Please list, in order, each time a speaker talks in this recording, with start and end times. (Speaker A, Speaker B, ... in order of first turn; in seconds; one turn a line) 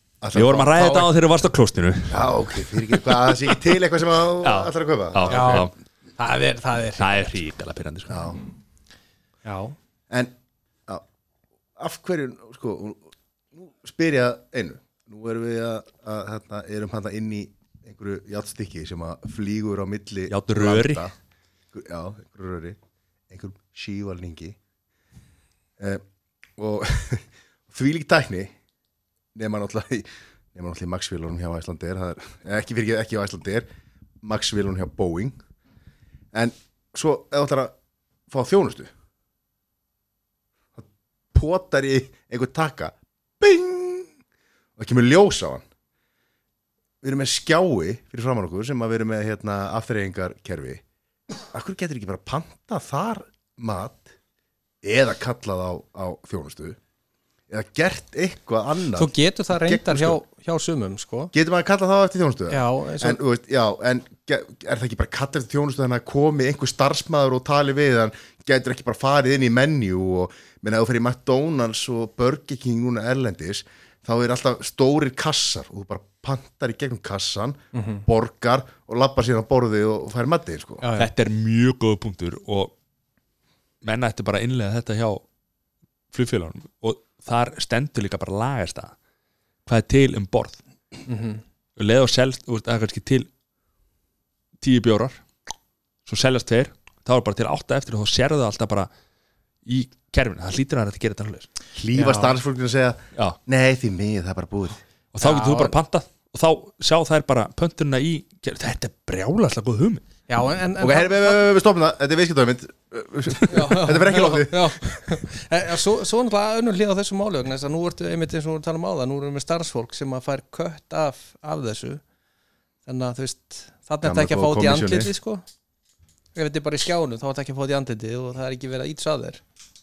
Speaker A: 0.2-1.0
Speaker B: 0.3-2.2
Speaker A: 2.1-5.7
Speaker B: 2.9-3.6
Speaker B: 4.4-5.7
Speaker C: 5.3-7.4
Speaker B: 7.0-8.3
Speaker A: 8.1-8.4
Speaker C: 9.4-9.8
Speaker A: 10.1-10.3
Speaker A: 11.8-21.1
Speaker B: 20.3-21.1
Speaker A: 21.7-22.8
Speaker A: 23.3-24.6
Speaker A: 26.6-28.5
Speaker A: 29.4-33.7
Speaker A: 34.2-35.4
Speaker A: 36.3-37.7
Speaker A: 38.3-38.9
Speaker A: 40.8-44.1
Speaker A: 44.8-45.6
Speaker A: 47.0-50.8
Speaker A: 51.5-54.1
Speaker A: 54.8-56.8
Speaker A: 57.5-60.2
Speaker C: 59.0-61.3
Speaker A: 61.3-80.8
Speaker C: 62.5-63.2
Speaker C: 77.7-78.0
Speaker C: 80.8-81.1
Speaker B: 81.0-82.7
Speaker B: 83.8-85.2
Speaker B: 86.1-89.0
Speaker B: 89.7-90.6
Speaker C: 91.1-91.4
Speaker B: 91.8-93.3
Speaker B: 94.6-95.2
Speaker B: 96.1-98.9
Speaker B: 99.7-101.5
Speaker A: 101.8-104.8
Speaker C: 101.9-102.4
Speaker B: 105.1-110.0
Speaker C: 105.2-105.8
Speaker C: 110.3-111.4
Speaker A: 110.8-115.1
Speaker C: 113.5-122.0
Speaker C: 122.9-125.4
Speaker A: 124.0-125.1
Speaker C: 126.3-129.4